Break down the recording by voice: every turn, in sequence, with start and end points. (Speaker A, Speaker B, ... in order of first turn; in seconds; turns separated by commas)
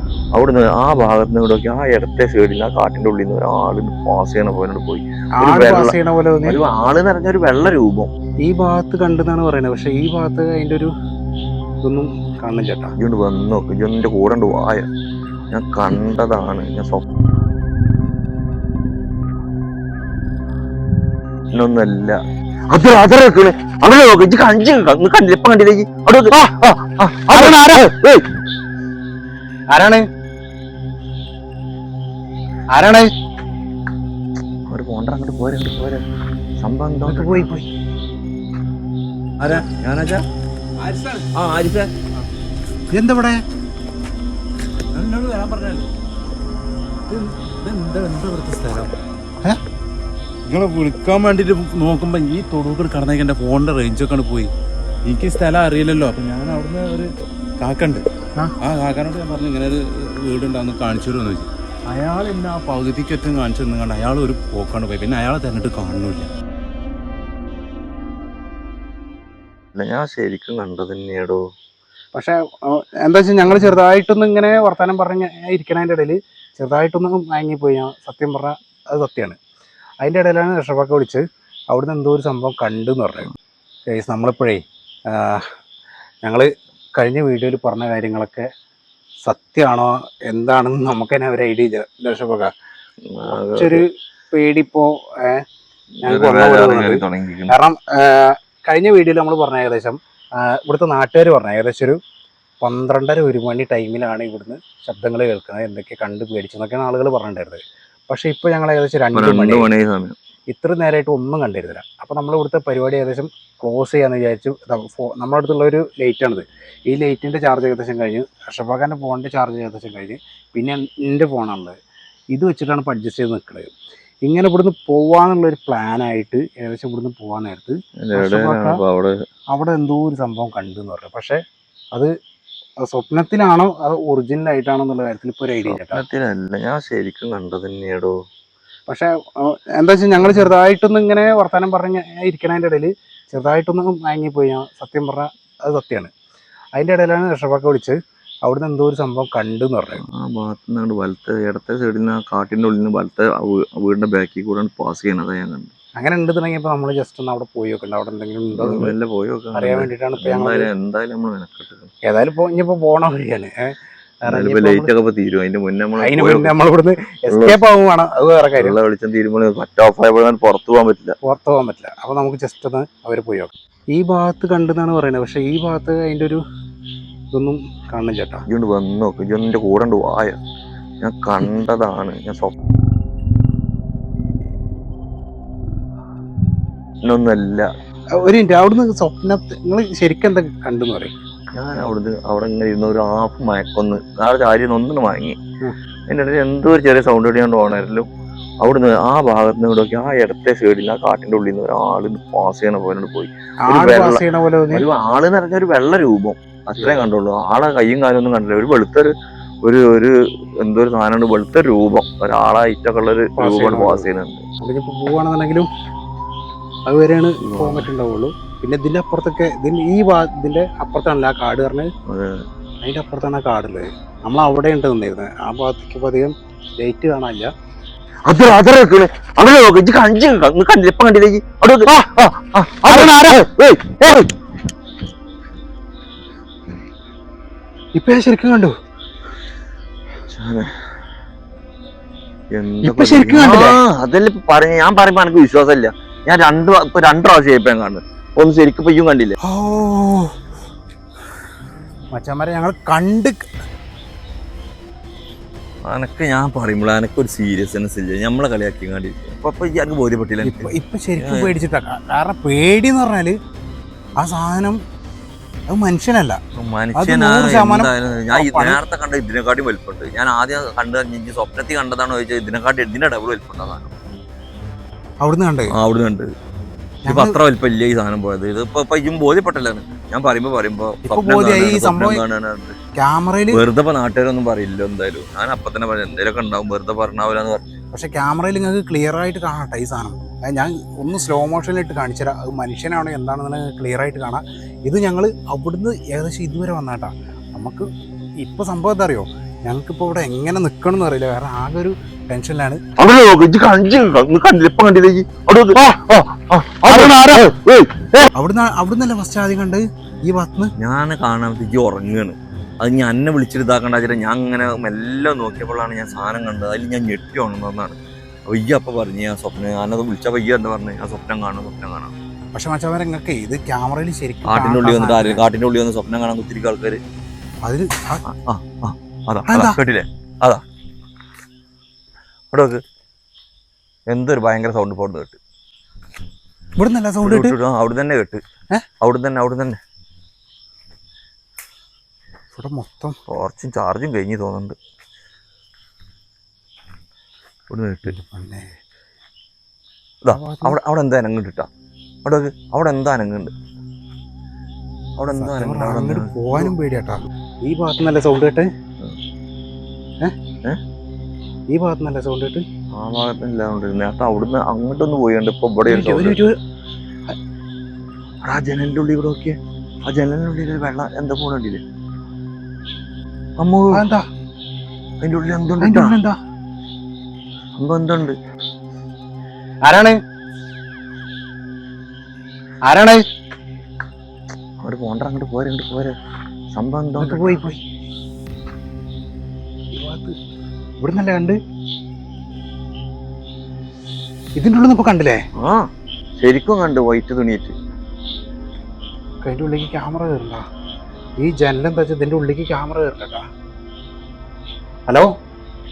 Speaker A: 0.3-8.1, Speaker B: 5.4-6.6, Speaker B: 8.4-10.9, Speaker B: 11.8-12.9, Speaker A: 13.0-14.9, Speaker A: 15.5-17.0, Speaker A: 21.5-22.2, Speaker A: 22.7-28.2, Speaker B: 27.3-27.9, Speaker B: 29.7-30.0, Speaker B: 32.7-33.1, Speaker A: 34.7-36.0, Speaker A: 36.6-37.5, Speaker B: 37.0-37.7, Speaker A: 39.4-40.2, Speaker C: 40.8-41.3, Speaker A: 41.3-41.9, Speaker B: 42.9-43.4, Speaker C: 44.9-45.9, Speaker C: 47.1-48.9, Speaker C: 50.5-54.5, Speaker C: 55.1-58.0, Speaker C: 58.6-66.3, Speaker A: 69.8-71.4, Speaker B: 72.1-79.4, Speaker B: 80.0-83.3, Speaker B: 83.9-85.4, Speaker B: 86.2-88.5, Speaker B: 89.3-92.5, Speaker A: 93.1-93.8, Speaker B: 93.2-95.4, Speaker A: 96.0-97.5, Speaker B: 96.0-102.0, Speaker B: 102.6-109.7, Speaker A: 109.1-110.2, Speaker B: 110.5-121.8, Speaker B: 122.3-123.7, Speaker B: 124.2-128.8, Speaker A: 128.0-129.2, Speaker B: 129.5-131.4, Speaker B: 132.8-136.0, Speaker A: 135.6-138.2, Speaker B: 138.9-146.1, Speaker B: 146.8-150.0, Speaker A: 150.1-155.7, Speaker B: 156.0-158.9, Speaker A: 158.6-161.9, Speaker B: 159.5-160.7, Speaker B: 162.0-163.5, Speaker B: 164.2-164.9, Speaker A: 164.3-166.5, Speaker B: 166.0-168.8, Speaker A: 167.3-167.6, Speaker A: 168.6-171.2, Speaker B: 171.2-176.4, Speaker B: 177.3-178.4, Speaker A: 178.5-180.4, Speaker A: 181.0-182.5, Speaker A: 187.1-187.7, Speaker B: 188.2-191.1, Speaker A: 191.6-195.4, Speaker A: 196.1-198.1, Speaker A: 198.6-209.1, Speaker B: 203.7-204.9, Speaker B: 206.8-207.1, Speaker A: 209.6-214.4, Speaker B: 213.4-214.1, Speaker B: 214.6-215.7, Speaker B: 216.9-221.9, Speaker A: 217.4-217.9, Speaker A: 222.1-222.5, Speaker B: 222.8-227.5, Speaker A: 228.3-234.3, Speaker B: 232.8-233.3, Speaker B: 238.0-238.7, Speaker A: 240.3-240.7, Speaker A: 242.5-249.4, Speaker B: 242.8-243.8, Speaker B: 249.4-250.3, Speaker B: 252.1-253.4, Speaker A: 255.9-261.5, Speaker B: 260.4-263.4, Speaker B: 264.2-264.8, Speaker B: 265.7-266.4, Speaker A: 266.6-273.9, Speaker B: 266.9-268.8, Speaker B: 275.2-275.7, Speaker A: 275.7-276.3, Speaker B: 277.0-277.4, Speaker A: 277.1-282.8, Speaker B: 281.1-282.2, Speaker B: 283.0-283.6, Speaker A: 283.5-287.6, Speaker B: 287.9-297.9, Speaker B: 298.4-302.8, Speaker A: 303.0-308.3, Speaker B: 306.9-307.3, Speaker B: 308.4-310.7, Speaker A: 310.8-318.0, Speaker A: 318.5-322.1, Speaker B: 322.5-325.4, Speaker A: 324.4-327.0, Speaker B: 327.6-328.2, Speaker A: 328.2-330.6, Speaker B: 329.5-329.8, Speaker A: 332.5-332.8, Speaker A: 334.1-335.4, Speaker B: 336.8-337.6, Speaker A: 337.2-338.4, Speaker A: 339.0-339.8, Speaker B: 342.5-343.2, Speaker A: 343.3-344.8, Speaker A: 347.7-348.2, Speaker B: 348.2-348.7, Speaker A: 350.2-351.7, Speaker B: 350.3-350.8, Speaker A: 352.2-353.5, Speaker A: 355.2-356.7, Speaker B: 355.4-358.7, Speaker B: 361.7-362.6, Speaker A: 363.0-366.4, Speaker B: 365.9-366.6, Speaker A: 368.4-371.8, Speaker A: 373.6-374.0, Speaker B: 373.9-374.2, Speaker A: 375.2-376.2, Speaker B: 375.8-376.4, Speaker A: 377.8-378.4, Speaker B: 379.8-380.2, Speaker B: 382.9-383.2, Speaker A: 384.8-386.2, Speaker A: 386.7-387.6, Speaker B: 387.2-387.8, Speaker B: 389.9-390.4, Speaker B: 391.0-391.6, Speaker B: 394.6-395.4, Speaker A: 395.6-395.9, Speaker A: 396.4-397.8, Speaker B: 399.4-400.6, Speaker B: 401.4-403.4